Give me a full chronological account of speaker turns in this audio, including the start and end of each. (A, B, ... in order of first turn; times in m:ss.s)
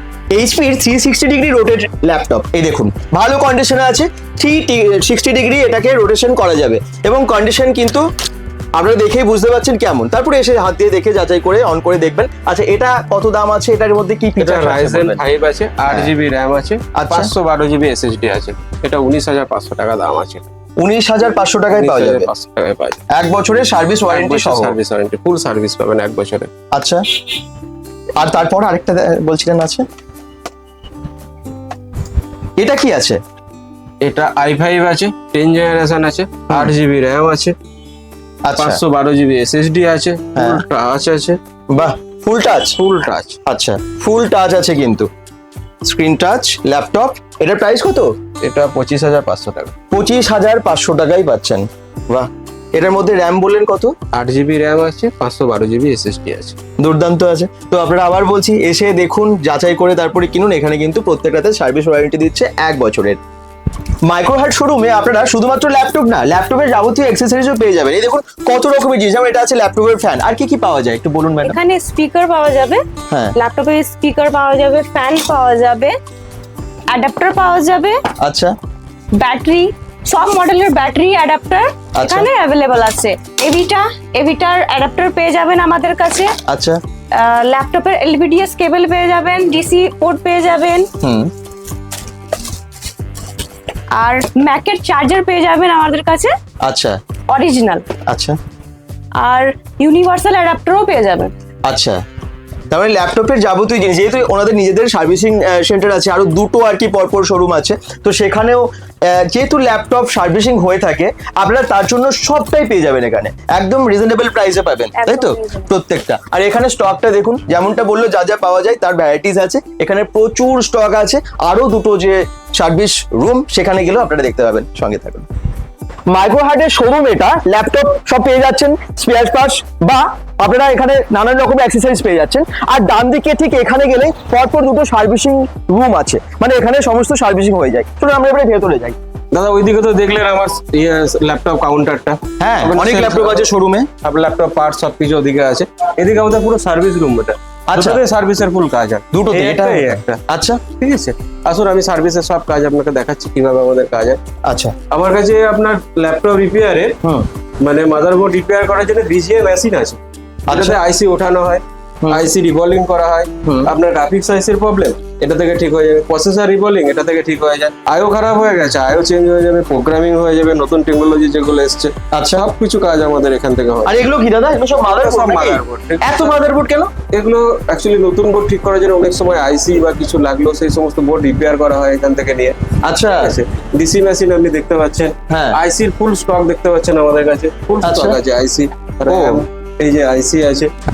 0:00.3-0:08.0 A
0:08.8-0:15.2 A
0:14.4-0:20.5 B
0:17.0-0:17.3 A
0:20.8-0:22.3 A
0:21.7-0:23.1 B
0:23.1-0:24.8 A
0:24.1-0:26.5 B
0:26.7-0:27.0 A
0:28.2-0:29.8 A
0:32.6-0:33.2 A
0:34.0-0:37.6 B
0:38.4-0:38.8 A
0:38.6-0:41.8 B
0:40.4-0:40.6 A
0:41.7-0:42.8 A
0:42.8-0:43.4 B
0:43.5-0:45.1 A
0:45.9-0:48.1 A
0:48.4-0:49.8 B
0:49.9-0:53.9 A
0:54.1-0:56.6 B
0:56.8-1:03.2 A
1:04.1-1:11.6 A
1:11.4-1:16.0 C
1:13.1-1:13.4 A
1:16.9-1:18.0 C
1:18.2-1:18.5 A
1:19.2-1:26.4 C
1:22.0-1:22.3 A
1:26.5-1:26.8 A
1:27.1-1:30.9 C
1:31.0-1:31.3 A
1:34.0-1:36.3 C
1:36.6-1:37.0 A
1:37.3-1:37.8 C
1:38.1-1:38.4 A
1:39.2-1:41.3 C
1:41.7-1:42.0 A
1:42.7-2:05.2 A
1:55.0-1:55.7 C
2:06.1-2:19.0 A
2:19.3-2:23.5 B
2:22.4-2:23.9 A
2:24.0-2:34.2 B
2:27.7-2:28.0 A
2:29.1-2:30.6 A
2:34.5-2:34.7 A
2:34.9-2:37.0 B
2:37.6-2:54.1 B
2:40.5-2:40.8 A
2:42.0-2:42.3 A
2:43.4-2:43.7 A
2:52.1-2:52.4 A
2:53.8-2:56.9 A
2:54.7-2:56.5 B
2:57.1-3:10.7 B
3:02.8-3:03.4 A
3:05.3-3:05.6 A
3:07.8-3:08.2 A
3:09.1-3:09.4 A